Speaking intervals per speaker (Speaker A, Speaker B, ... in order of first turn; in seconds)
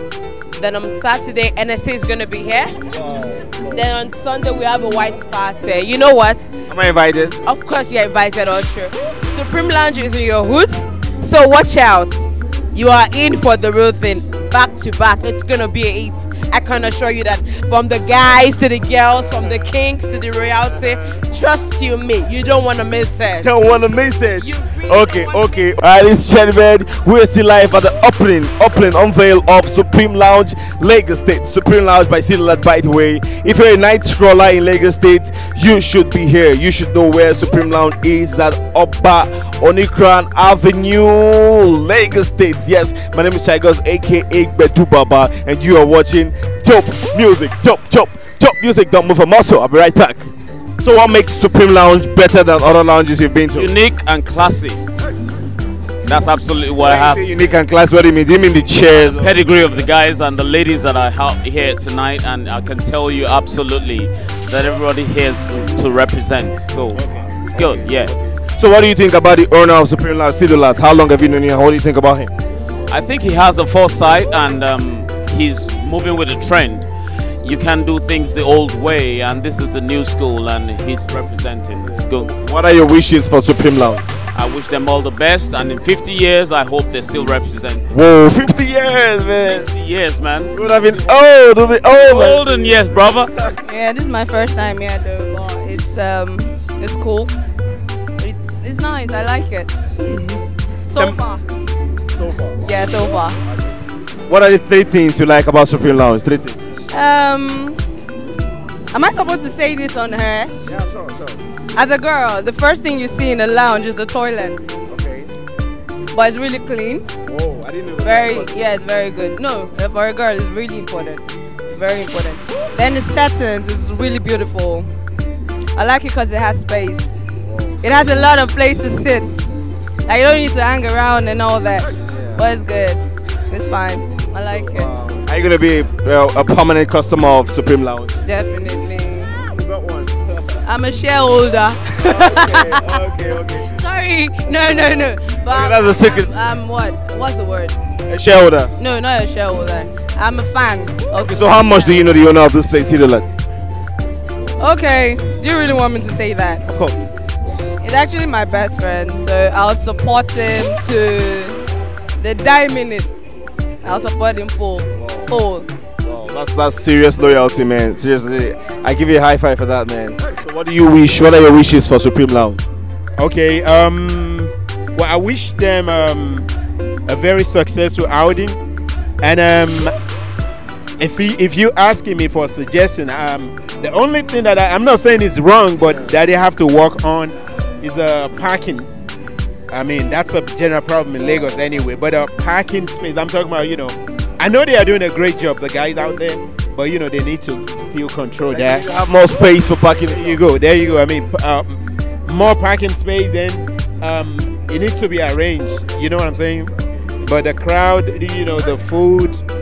Speaker A: 0.6-2.8, 3.7-6.5, 7.5-23.5, 24.4-25.7
Speaker B: 3.0-3.7, 6.7-7.4, 23.4-53.8, 56.8-59.4, 67.5-72.3, 81.8-84.1, 87.9-89.7, 90.5-92.5, 102.2-102.5, 104.3-106.6, 110.8-111.4, 114.9-115.3, 117.3-118.5, 132.1-132.3, 134.4-138.2, 139.4-140.2, 142.0-143.8, 145.5-146.3, 148.1-148.7, 151.2-153.4, 156.7-157.0, 165.0-165.3, 166.0-172.6, 198.5-200.4
Speaker C: 53.5-54.8, 56.0-57.4, 58.9-68.2, 72.9-76.9, 77.4-82.3, 84.3-87.9, 89.4-90.5, 92.0-93.3
Speaker D: 67.0-67.9, 173.2-176.5, 177.1-178.6, 179.2-179.9, 181.0-188.9, 189.7-198.9, 200.1-206.7, 207.2-209.4
Speaker E: 93.6-97.3, 98.2-101.4, 102.6-103.4, 106.9-107.8, 108.9-110.5, 111.8-114.6, 116.1-117.1, 118.0-124.9, 125.8-127.1, 127.8-129.5, 130.1-134.9, 138.2-139.4, 140.6-143.0, 143.6-147.8, 148.8-152.1, 154.6-156.7, 157.8-161.6, 162.2-163.1, 163.8-165.7